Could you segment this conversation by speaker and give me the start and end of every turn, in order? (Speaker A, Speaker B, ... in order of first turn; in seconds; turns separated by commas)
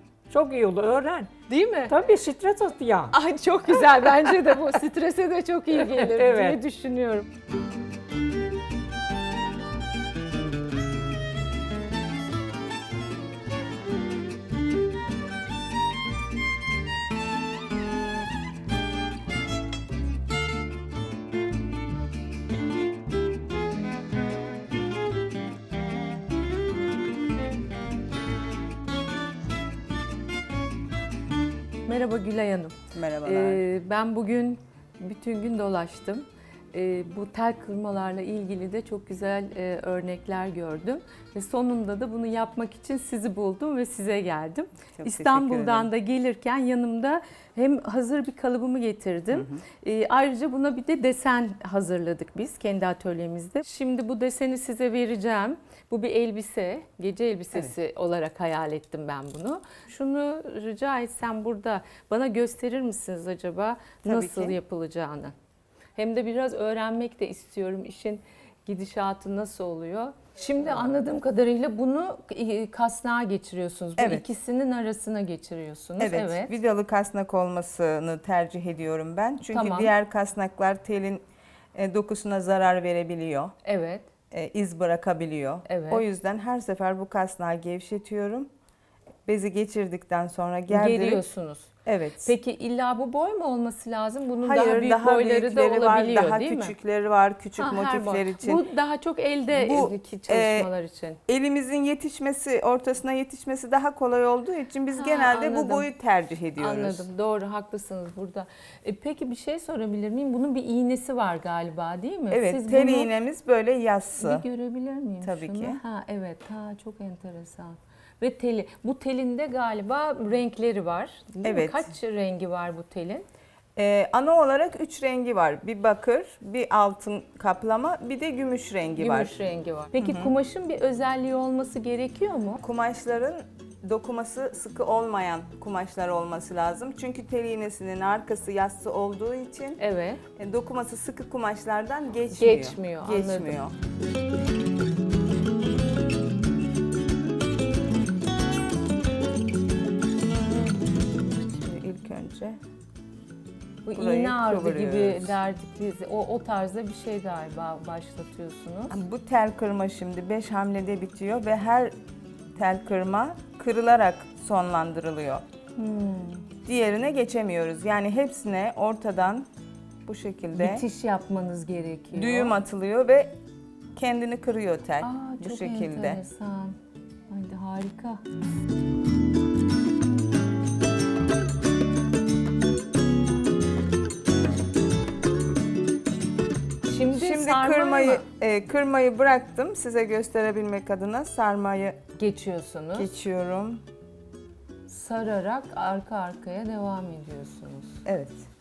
Speaker A: 0.3-1.3, Speaker B: 1.5-1.9, Speaker A: 1.9-3.1, Speaker B: 3.1-7.3, Speaker A: 5.8-6.6, Speaker B: 31.9-65.3, Speaker C: 32.9-33.6, Speaker C: 45.0-45.9, Speaker C: 49.3-49.6, Speaker C: 64.0-64.6, Speaker B: 66.0-76.5, Speaker C: 74.0-74.2, Speaker C: 76.0-81.2, Speaker B: 79.5-79.9, Speaker C: 81.8-83.5, Speaker B: 83.6-84.1, Speaker C: 84.3-88.5, Speaker B: 85.7-86.0, Speaker C: 89.3-91.2, Speaker B: 90.7-91.7, Speaker C: 91.9-92.3, Speaker B: 92.2-96.7, Speaker C: 94.4-98.6, Speaker B: 97.6-101.2, Speaker C: 99.5-100.7, Speaker C: 101.3-107.0, Speaker B: 105.0-105.9, Speaker B: 106.6-113.1, Speaker C: 112.3-114.5, Speaker B: 114.2-123.2, Speaker C: 115.2-115.8, Speaker C: 121.4-121.9, Speaker C: 123.8-129.4, Speaker B: 129.0-132.6, Speaker C: 130.0-130.3, Speaker C: 132.6-139.8, Speaker B: 139.8-140.2, Speaker C: 140.4-143.7, Speaker B: 142.3-143.6, Speaker C: 151.6-152.6, Speaker B: 153.9-159.0, Speaker C: 153.9-155.3, Speaker C: 158.9-161.9, Speaker C: 162.6-165.4, Speaker B: 165.8-166.5, Speaker C: 166.6-169.5, Speaker C: 170.1-170.8, Speaker B: 170.6-172.5, Speaker C: 172.1-173.3, Speaker C: 174.0-176.2, Speaker B: 175.0-176.8, Speaker B: 177.3-178.2, Speaker B: 186.9-188.2, Speaker C: 187.2-192.0, Speaker B: 192.2-193.1, Speaker C: 193.0-193.8, Speaker B: 194.9-198.0, Speaker C: 198.1-198.4